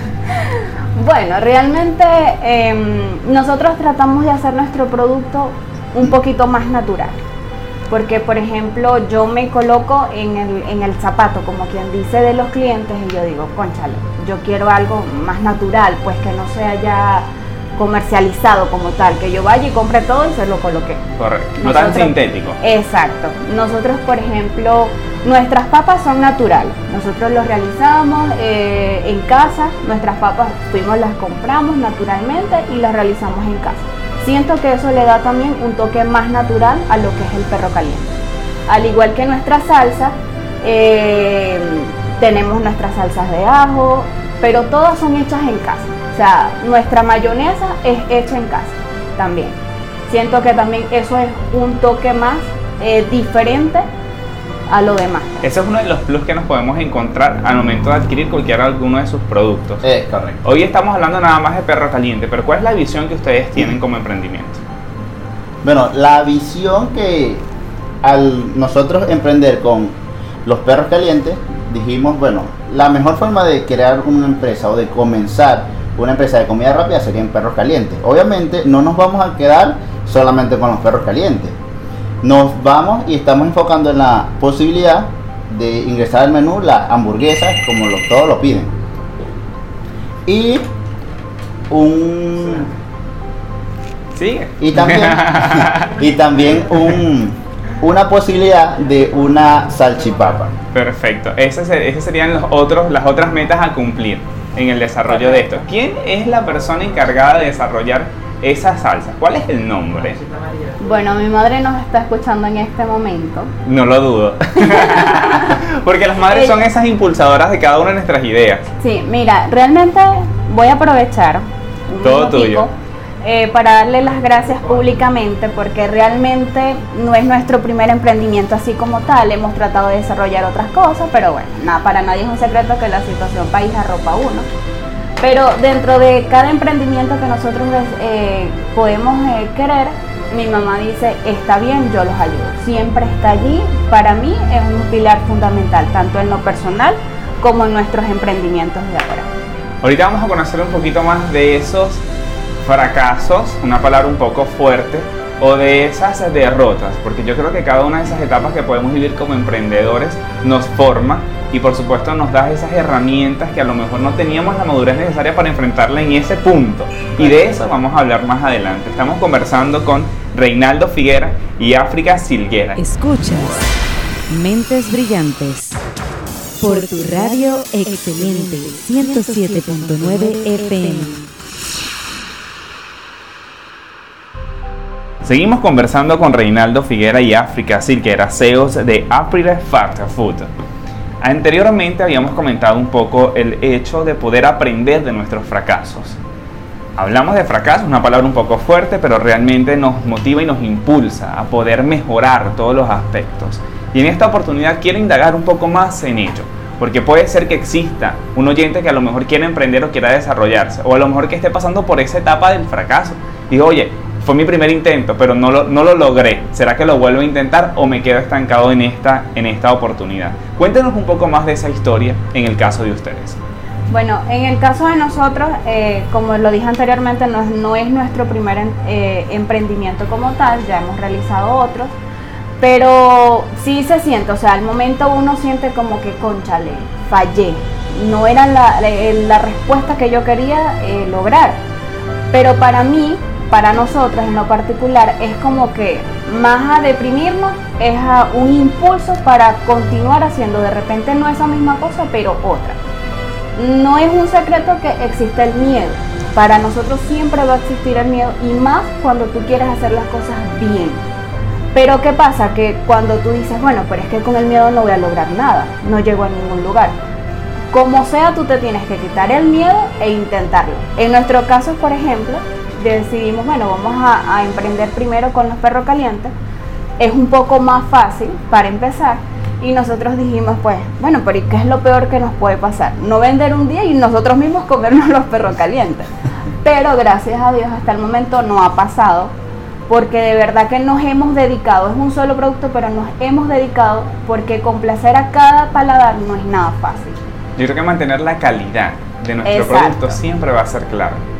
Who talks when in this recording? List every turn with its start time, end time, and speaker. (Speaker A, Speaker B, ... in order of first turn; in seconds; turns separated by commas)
Speaker A: 0.3-7.2, Speaker A: 7.9-21.0, Speaker B: 21.2-22.6, Speaker A: 21.6-38.2, Speaker A: 38.7-53.8, Speaker A: 54.7-55.5, Speaker B: 55.4-59.8, Speaker C: 59.8-60.4, Speaker B: 60.4-64.6, Speaker C: 65.6-67.5, Speaker C: 68.0-81.5, Speaker C: 82.2-88.7, Speaker C: 90.2-90.7, Speaker C: 91.7-92.7, Speaker B: 94.1-96.0, Speaker C: 94.6-100.5, Speaker B: 100.7-110.2, Speaker A: 110.8-113.5, Speaker B: 113.6-118.6, Speaker A: 114.6-115.5, Speaker A: 116.3-116.6, Speaker A: 118.8-134.4, Speaker B: 122.0-122.7, Speaker A: 135.2-149.3, Speaker B: 149.8-152.0, Speaker B: 152.6-172.8, Speaker D: 172.8-173.7, Speaker D: 174.3-175.8, Speaker D: 176.6-181.3, Speaker B: 185.2-190.5, Speaker B: 191.2-196.2, Speaker B: 197.0-223.4, Speaker A: 223.9-231.9, Speaker A: 232.6-241.6, Speaker A: 242.3-252.8, Speaker A: 253.6-261.0, Speaker A: 261.7-266.9, Speaker A: 267.7-276.3, Speaker A: 277.0-286.1, Speaker A: 286.6-289.3, Speaker A: 289.9-297.2, Speaker B: 297.6-301.2, Speaker A: 299.4-300.2